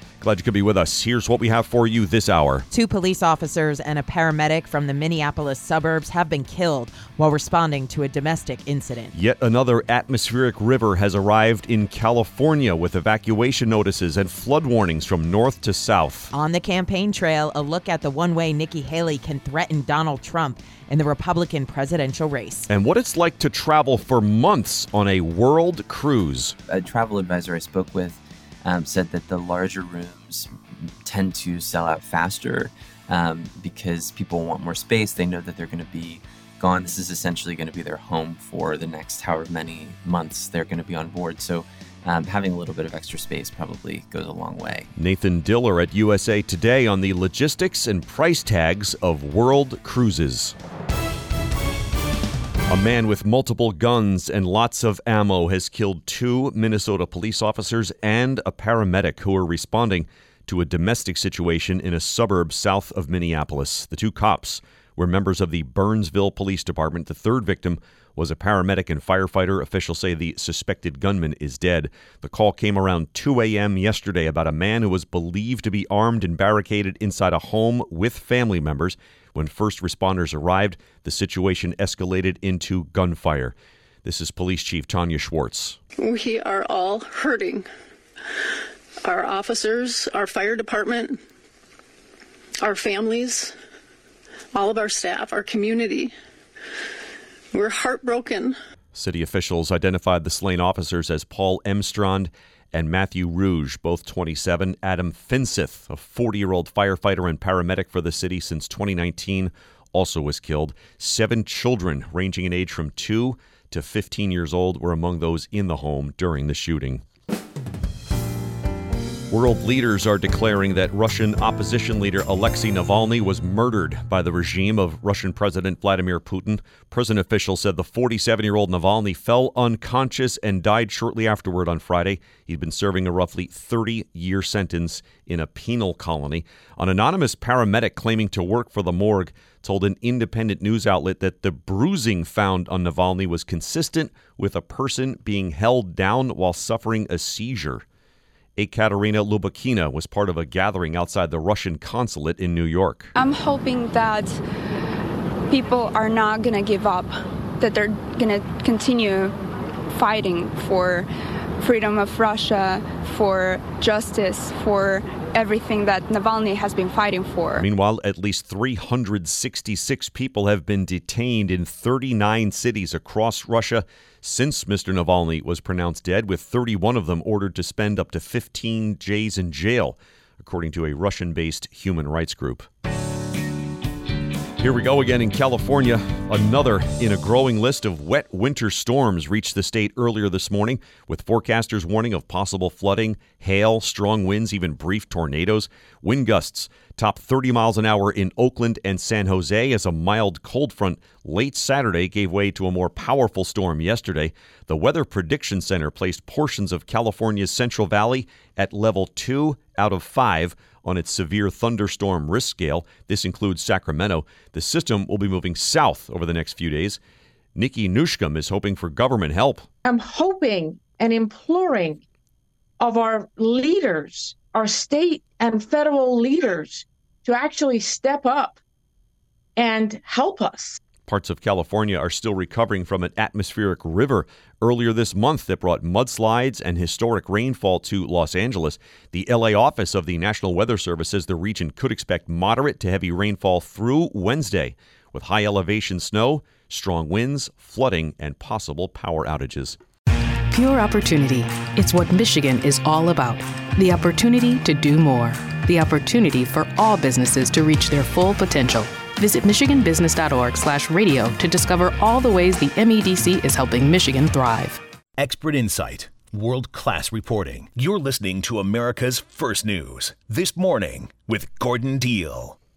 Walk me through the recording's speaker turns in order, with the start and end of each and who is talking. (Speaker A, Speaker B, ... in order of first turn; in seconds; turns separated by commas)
Speaker A: 0.2-2.7, Speaker B: 2.7-9.1, Speaker A: 9.1-16.3, Speaker B: 16.3-22.7, Speaker A: 22.7-26.6, Speaker C: 26.7-44.9, Speaker A: 45.0-50.5, Speaker A: 52.7-85.8, Speaker D: 86.0-87.7, Speaker D: 89.0-91.2, Speaker D: 92.6-93.5, Speaker D: 94.5-96.1, Speaker D: 97.5-98.6, Speaker A: 98.9-117.0, Speaker A: 119.3-147.8, Speaker A: 148.6-153.1, Speaker E: 153.1-154.4, Speaker E: 155.5-159.3, Speaker E: 159.9-167.7, Speaker A: 167.6-182.7, Speaker A: 184.6-217.0, Speaker A: 217.5-219.7, Speaker F: 219.8-222.0, Speaker F: 222.8-228.6, Speaker F: 229.6-230.8, Speaker A: 231.1-249.8, Speaker G: 250.5-264.8, Speaker H: 265.2-272.6